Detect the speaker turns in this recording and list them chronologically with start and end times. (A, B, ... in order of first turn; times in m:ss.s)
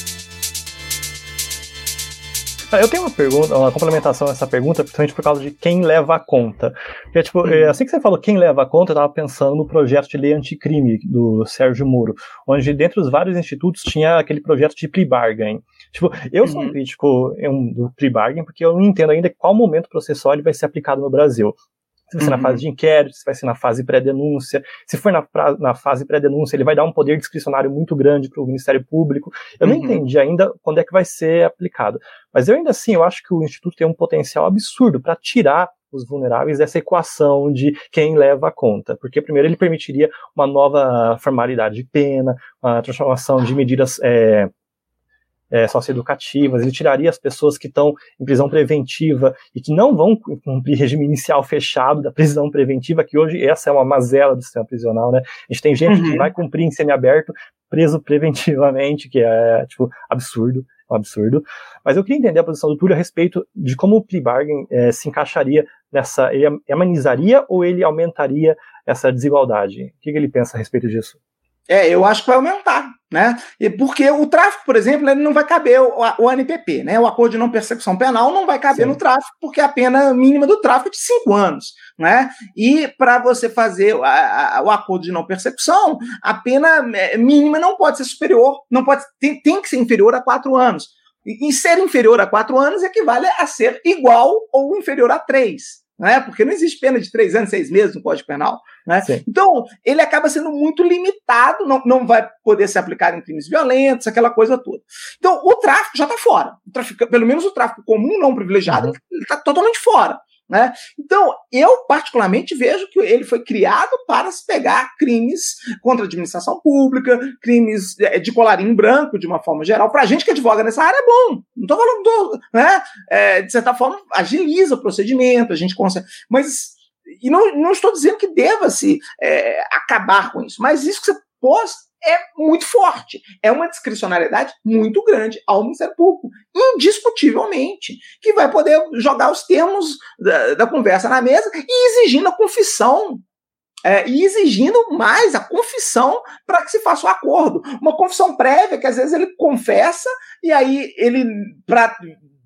0:02.7-0:21.6 A
0:07.4-0:07.7 B
0:16.4-0:16.8 B
0:22.1-0:44.5 A
0:22.2-0:22.6 B
0:29.6-0:30.0 B
0:45.5-1:11.2 A
0:55.9-0:56.3 B
1:11.7-2:23.2 B
1:48.7-1:49.0 A
2:23.8-2:32.2 B